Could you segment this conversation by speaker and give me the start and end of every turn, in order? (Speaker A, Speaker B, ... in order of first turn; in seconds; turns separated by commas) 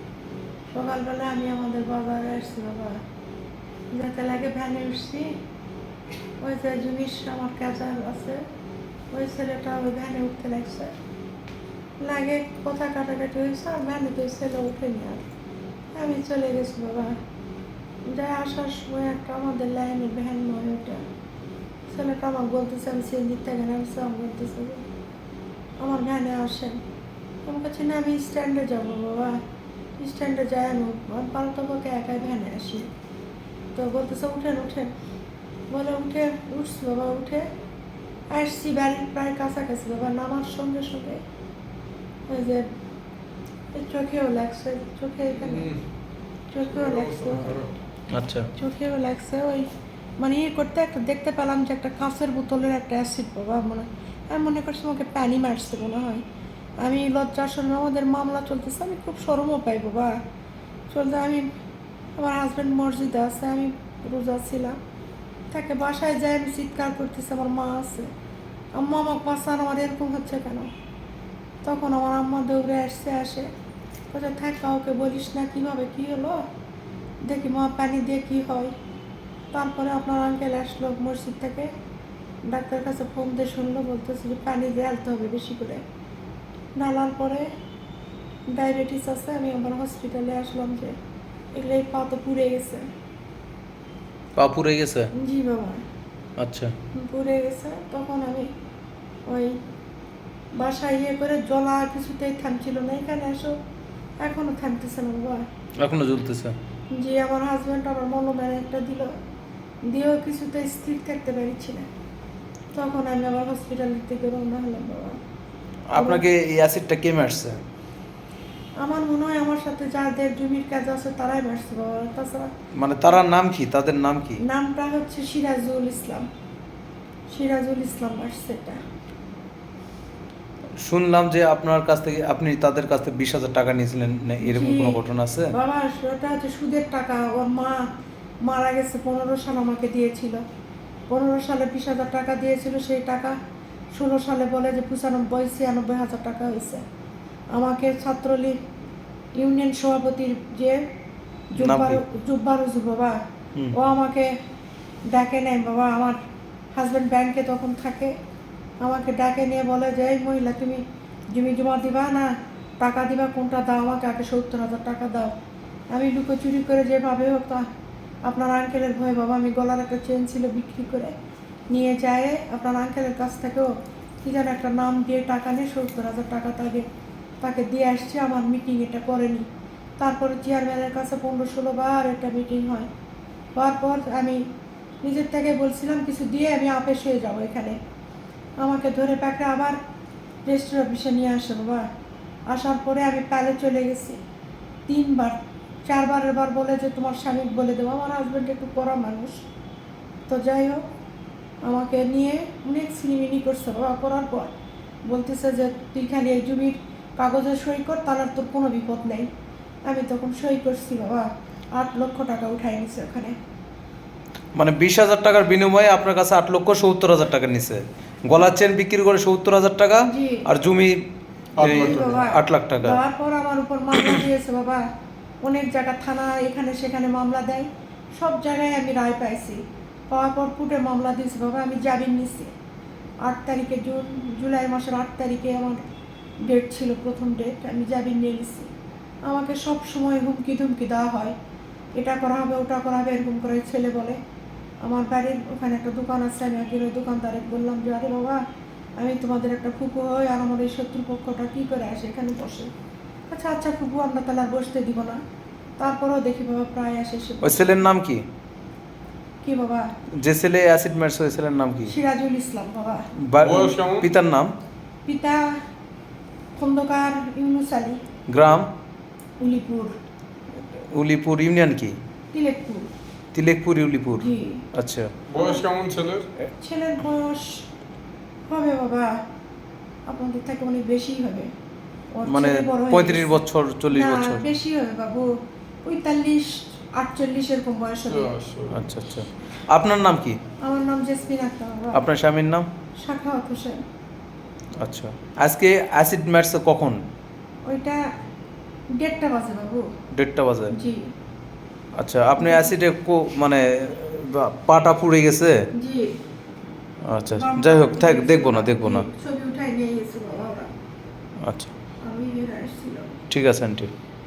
Speaker A: 0.7-3.0, Speaker A: 3.9-5.3, Speaker A: 6.4-8.4, Speaker A: 9.1-10.9, Speaker A: 12.0-15.3, Speaker A: 15.9-17.2, Speaker A: 18.1-21.0, Speaker A: 21.9-24.9, Speaker A: 25.8-26.8, Speaker A: 27.5-29.4, Speaker A: 30.0-32.9, Speaker A: 33.7-34.9, Speaker A: 35.7-37.5, Speaker A: 38.3-41.2, Speaker A: 42.3-42.7, Speaker A: 43.7-45.7, Speaker B: 45.4-45.8, Speaker A: 46.5-47.6, Speaker B: 46.7-47.7, Speaker C: 48.1-48.5, Speaker A: 48.5-49.7, Speaker A: 50.2-56.2, Speaker A: 56.8-60.2, Speaker A: 60.9-61.5, Speaker A: 62.2-64.8, Speaker A: 65.5-68.1, Speaker A: 68.8-70.7, Speaker A: 71.6-73.5, Speaker A: 74.1-76.5, Speaker A: 77.2-78.7, Speaker A: 79.5-81.7, Speaker A: 82.5-85.8, Speaker A: 86.8-87.5, Speaker A: 88.5-91.0, Speaker A: 91.5-92.9, Speaker C: 94.4-95.1, Speaker A: 95.1-95.8, Speaker C: 96.4-96.8, Speaker A: 96.9-98.5, Speaker A: 99.3-99.6, Speaker A: 100.5-103.5, Speaker A: 104.2-105.5, Speaker C: 105.8-106.6, Speaker A: 106.9-109.1, Speaker A: 109.9-111.9, Speaker A: 112.7-115.2, Speaker C: 115.9-117.6, Speaker A: 116.0-116.2, Speaker A: 118.8-122.5, Speaker C: 122.8-124.4, Speaker A: 124.4-126.3, Speaker A: 127.3-128.8, Speaker C: 130.8-135.5, Speaker A: 134.4-137.8, Speaker A: 138.4-140.4, Speaker A: 141.1-143.4, Speaker A: 143.9-146.8, Speaker A: 147.5-148.6, Speaker A: 149.4-150.8, Speaker A: 151.5-153.2, Speaker C: 151.6-152.0, Speaker A: 153.7-154.3, Speaker A: 155.1-156.2, Speaker A: 156.8-158.1, Speaker A: 158.8-165.3, Speaker A: 165.9-167.7, Speaker A: 168.2-171.2, Speaker A: 171.7-176.9, Speaker A: 177.4-179.4, Speaker A: 180.0-182.9, Speaker A: 183.6-184.4, Speaker A: 185.0-187.8, Speaker A: 188.6-189.8, Speaker A: 190.4-191.9, Speaker A: 192.5-194.2, Speaker A: 194.9-199.4, Speaker A: 200.3-200.8, Speaker A: 201.7-204.5, Speaker A: 205.1-209.3, Speaker A: 209.9-213.4, Speaker C: 214.6-221.0, Speaker A: 220.0-220.5, Speaker B: 221.6-222.2, Speaker C: 221.6-223.0, Speaker A: 221.6-224.8, Speaker A: 225.4-232.5, Speaker A: 233.2-235.8, Speaker A: 236.4-238.7, Speaker A: 239.3-241.3, Speaker A: 242.0-244.2, Speaker A: 244.8-248.4, Speaker A: 249.0-252.7, Speaker A: 253.3-255.2, Speaker A: 255.8-257.8, Speaker C: 257.4-258.2, Speaker A: 259.4-259.9, Speaker C: 260.2-261.9, Speaker A: 261.9-263.1, Speaker C: 263.2-264.5, Speaker B: 263.4-264.1, Speaker A: 265.1-265.5, Speaker A: 266.6-268.0, Speaker C: 268.3-268.7, Speaker A: 269.4-269.9, Speaker C: 270.8-272.0, Speaker A: 272.3-272.9, Speaker C: 273.3-275.1, Speaker A: 274.2-274.6, Speaker B: 275.3-276.3, Speaker A: 275.4-275.6, Speaker A: 276.6-277.6, Speaker A: 278.5-279.2, Speaker A: 280.1-281.5, Speaker A: 282.1-285.3, Speaker C: 282.3-284.4, Speaker A: 285.8-288.3, Speaker B: 288.1-288.8, Speaker C: 288.7-290.4, Speaker A: 290.6-292.0, Speaker C: 291.9-292.7, Speaker A: 293.0-293.8, Speaker C: 294.8-297.0, Speaker A: 297.7-298.0, Speaker A: 298.9-299.9, Speaker C: 300.1-300.7, Speaker A: 300.7-301.1, Speaker C: 302.0-305.6, Speaker A: 302.4-302.7, Speaker A: 305.7-306.2, Speaker C: 307.1-309.1, Speaker A: 307.4-310.7, Speaker C: 311.4-311.7, Speaker A: 312.0-313.2, Speaker C: 313.3-313.9